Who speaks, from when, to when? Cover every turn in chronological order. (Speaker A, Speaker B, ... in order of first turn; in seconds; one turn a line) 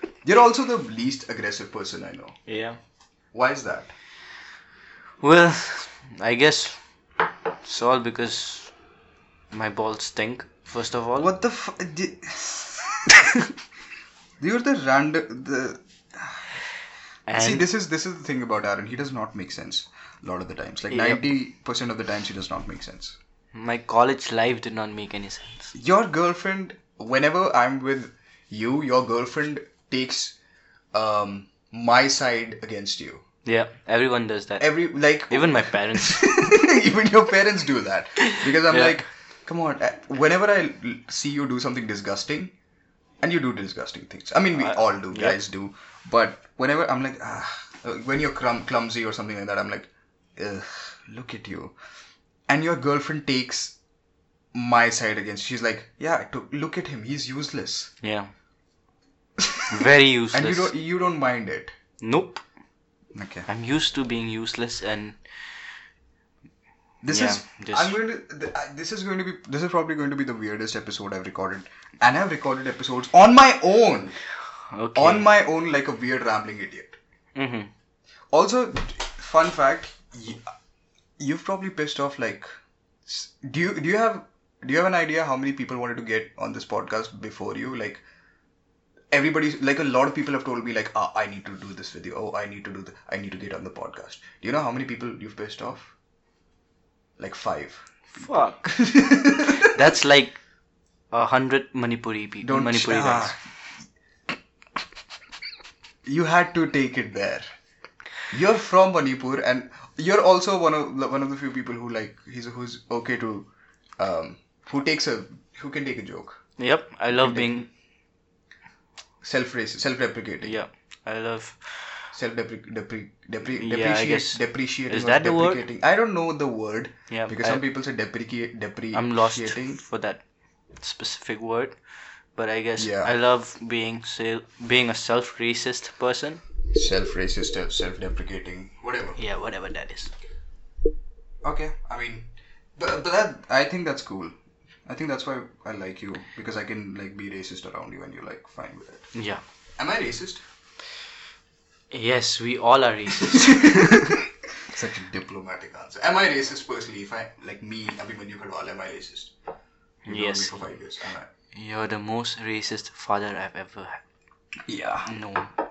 Speaker A: 0.2-2.4
Speaker B: 2.5-2.8
Speaker A: 3.3-3.9
Speaker B: 5.2-6.8
Speaker B: 7.6-8.7
Speaker B: 9.5-11.3
Speaker A: 11.2-13.2
Speaker A: 14.4-16.5
Speaker B: 17.3-17.7
Speaker A: 17.3-23.2
Speaker B: 20.9-21.2
Speaker B: 23.5-25.7
Speaker A: 25.7-30.3
Speaker A: 30.9-33.2
Speaker B: 33.4-36.3
Speaker A: 34.6-42.5
Speaker B: 38.3-39.0
Speaker A: 43.2-51.7
Speaker B: 44.5-45.4
Speaker A: 52.5-53.7
Speaker A: 54.5-57.9
Speaker B: 58.0-58.3
Speaker A: 59.4-59.7
Speaker B: 59.7-60.7
Speaker A: 60.3-61.7
Speaker B: 62.0-62.4
Speaker A: 63.1-63.5
Speaker B: 63.5-65.6
Speaker A: 67.0-74.2
Speaker B: 67.1-68.0
Speaker B: 74.7-75.3
Speaker A: 74.9-77.0
Speaker B: 77.3-77.7
Speaker A: 78.3-80.5
Speaker A: 81.2-82.5
Speaker A: 83.0-88.0
Speaker A: 89.1-95.9
Speaker A: 97.2-99.8
Speaker B: 98.1-98.8
Speaker B: 99.5-100.4
Speaker B: 101.1-103.3
Speaker A: 102.4-103.4
Speaker A: 106.0-107.5
Speaker A: 108.3-116.4
Speaker B: 116.6-117.7
Speaker A: 117.1-117.6
Speaker A: 119.2-120.6
Speaker B: 120.4-122.1
Speaker A: 122.1-129.8
Speaker B: 123.5-125.6
Speaker B: 127.1-127.6
Speaker B: 128.9-130.2
Speaker B: 130.8-131.8
Speaker B: 132.3-136.4
Speaker A: 132.8-133.1
Speaker A: 136.7-139.2
Speaker B: 139.2-140.1
Speaker A: 141.4-144.3
Speaker A: 144.8-149.1
Speaker B: 149.1-149.4
Speaker A: 149.8-150.4
Speaker B: 151.9-154.1
Speaker A: 153.3-159.3
Speaker B: 160.1-160.7
Speaker A: 160.1-161.3
Speaker B: 161.5-164.0
Speaker A: 164.7-165.2
Speaker B: 165.1-165.5